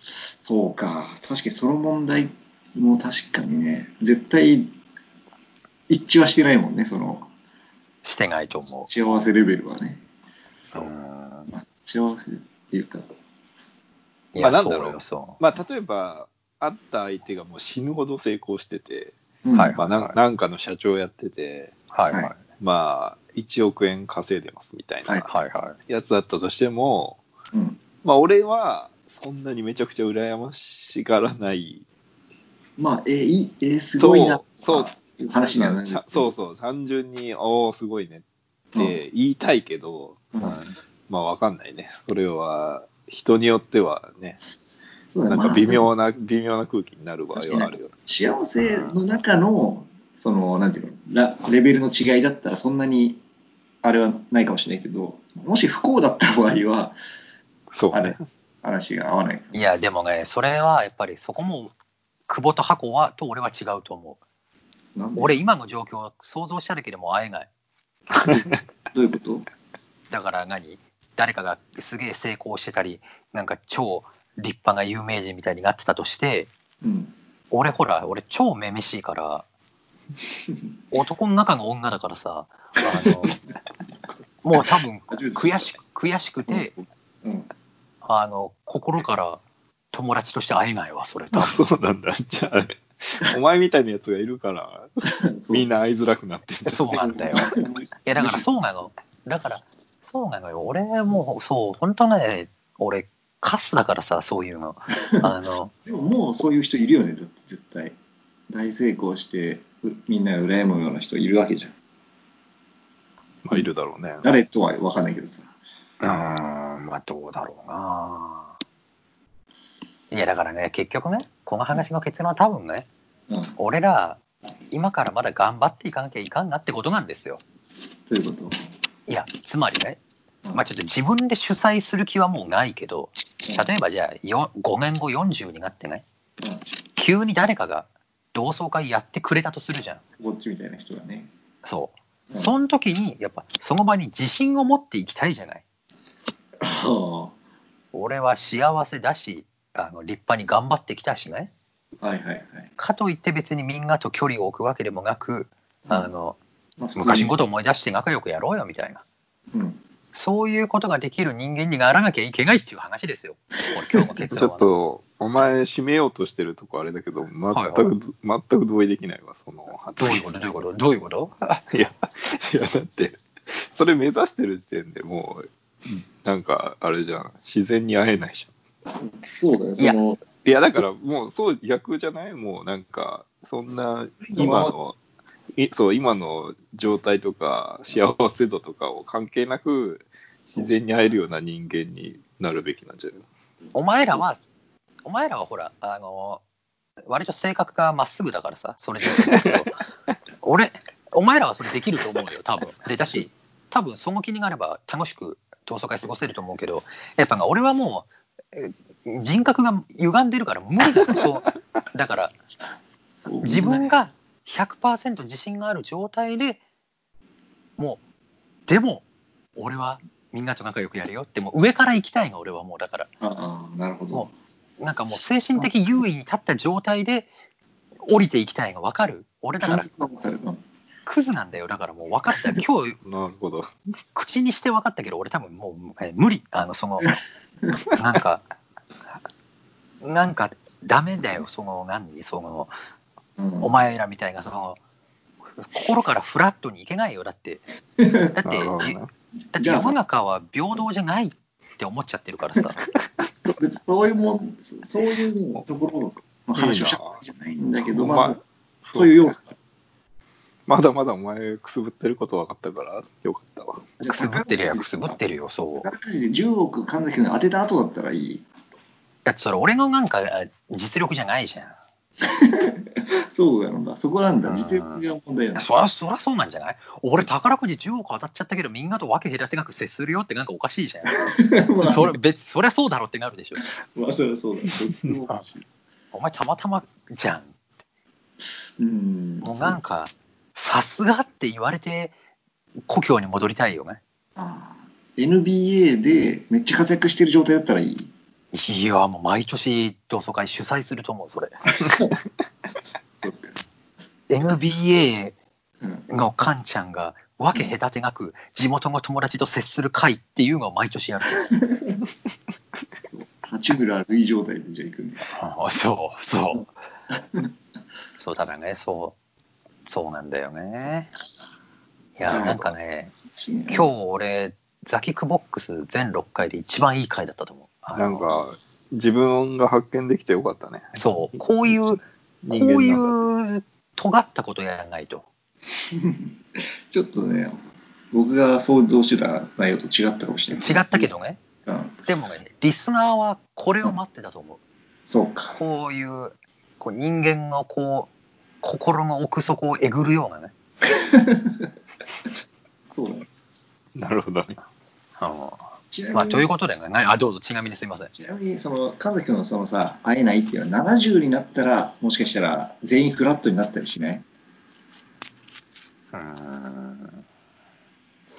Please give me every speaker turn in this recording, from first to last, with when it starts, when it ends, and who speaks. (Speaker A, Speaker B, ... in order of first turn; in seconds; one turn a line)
Speaker A: 0.4-4.7
Speaker A: 5.9-7.3
Speaker B: 8.0-8.9
Speaker A: 8.8-10.0
Speaker B: 10.7-11.5
Speaker A: 11.5-13.1
Speaker B: 14.3-15.4
Speaker C: 14.4-19.1
Speaker A: 19.4-19.8
Speaker B: 19.5-20.2
Speaker C: 19.8-21.7
Speaker B: 21.9-22.4
Speaker C: 22.5-25.3
Speaker B: 25.2-25.8
Speaker C: 25.9-27.2
Speaker A: 27.5-27.8
Speaker C: 28.0-31.8
Speaker A: 32.8-36.3
Speaker C: 34.0-38.2
Speaker C: 38.7-40.2
Speaker A: 40.3-40.6
Speaker B: 40.4-40.8
Speaker C: 41.1-44.4
Speaker A: 45.1-45.9
Speaker C: 45.3-47.9
Speaker A: 47.3-53.2
Speaker B: 48.6-49.0
Speaker A: 53.8-57.0
Speaker C: 57.7-58.2
Speaker A: 57.9-59.6
Speaker B: 59.5-61.7
Speaker B: 62.3-64.2
Speaker A: 65.0-65.3
Speaker B: 65.2-67.5
Speaker C: 68.2-68.6
Speaker A: 68.3-69.5
Speaker B: 70.1-76.5
Speaker A: 76.8-77.1
Speaker B: 77.5-79.5
Speaker B: 80.9-83.4
Speaker B: 84.4-86.7
Speaker A: 85.1-85.7
Speaker A: 86.5-87.5
Speaker B: 88.0-91.6
Speaker C: 91.3-97.2
Speaker A: 95.1-95.7
Speaker B: 96.7-105.7
Speaker A: 96.9-98.4
Speaker A: 105.8-107.9
Speaker A: 108.5-111.7
Speaker C: 113.4-114.3
Speaker A: 114.2-115.5
Speaker B: 116.0-118.5
Speaker B: 120.1-122.9
Speaker A: 123.3-123.5
Speaker B: 123.6-127.4
Speaker A: 128.1-128.5
Speaker B: 129.1-130.0
Speaker B: 130.5-136.0
Speaker A: 136.4-136.7
Speaker B: 137.0-140.0
Speaker A: 140.2-141.3
Speaker B: 141.6-145.6
Speaker A: 146.6-147.3
Speaker B: 147.9-151.5
Speaker A: 152.0-152.7
Speaker B: 152.8-156.4
Speaker A: 155.8-156.1
Speaker A: 156.8-157.4
Speaker B: 156.9-159.0
Speaker A: 159.5-159.8
Speaker B: 160.1-164.7
Speaker C: 164.3-170.6
Speaker B: 167.5-167.9
Speaker B: 170.0-171.3
Speaker C: 171.6-178.5
Speaker A: 179.0-180.2
Speaker C: 180.4-185.0
Speaker A: 184.3-184.7
Speaker C: 185.6-193.2
Speaker A: 190.5-190.8
Speaker B: 193.7-194.4
Speaker B: 195.0-196.4
Speaker B: 197.1-199.8
Speaker C: 199.2-199.6
Speaker B: 200.4-212.3
Speaker A: 213.2-213.9
Speaker B: 213.4-216.6
Speaker B: 218.7-219.0
Speaker B: 219.6-223.1
Speaker A: 223.2-224.3
Speaker B: 224.1-227.3
Speaker B: 228.1-229.9
Speaker A: 229.6-230.6
Speaker B: 231.1-233.0
Speaker C: 233.0-233.7
Speaker B: 234.1-237.2
Speaker B: 237.9-238.4
Speaker B: 240.0-242.7
Speaker A: 243.4-243.7
Speaker B: 243.6-244.8
Speaker B: 245.6-247.6
Speaker A: 248.0-248.3
Speaker B: 248.3-249.0
Speaker C: 248.4-249.1
Speaker B: 249.5-252.8
Speaker A: 249.6-250.0
Speaker A: 253.5-258.4
Speaker C: 256.5-257.2
Speaker C: 257.9-259.3
Speaker A: 258.9-259.6
Speaker C: 260.7-263.9
Speaker B: 264.0-265.9
Speaker A: 264.0-265.2
Speaker A: 265.8-268.4
Speaker B: 269.2-271.7
Speaker A: 272.2-275.7
Speaker B: 274.4-275.0
Speaker B: 275.6-281.3
Speaker A: 281.2-282.1
Speaker B: 281.8-283.6
Speaker A: 283.8-285.6
Speaker B: 286.1-287.5
Speaker A: 288.8-289.8
Speaker B: 289.4-292.1
Speaker B: 292.9-294.0
Speaker A: 294.4-298.1
Speaker B: 298.5-301.5
Speaker A: 303.2-303.6
Speaker B: 304.3-305.4
Speaker B: 306.1-311.5
Speaker A: 313.1-315.3
Speaker B: 315.3-316.7
Speaker A: 317.1-317.5
Speaker B: 318.2-319.1
Speaker B: 319.9-321.1
Speaker B: 322.2-323.1
Speaker A: 322.2-322.6
Speaker C: 322.3-322.7
Speaker A: 323.3-323.9
Speaker B: 323.7-328.4
Speaker C: 327.9-333.2
Speaker B: 330.9-332.0
Speaker B: 332.5-335.2
Speaker A: 335.8-337.6
Speaker A: 338.1-341.1
Speaker B: 340.6-341.4
Speaker A: 341.6-341.9
Speaker B: 342.0-344.6
Speaker A: 345.1-345.6
Speaker B: 345.5-350.5
Speaker A: 350.8-351.7
Speaker A: 352.9-353.3
Speaker C: 353.9-354.6
Speaker B: 355.2-358.1
Speaker A: 355.9-356.5
Speaker A: 358.1-364.2
Speaker B: 366.1-367.2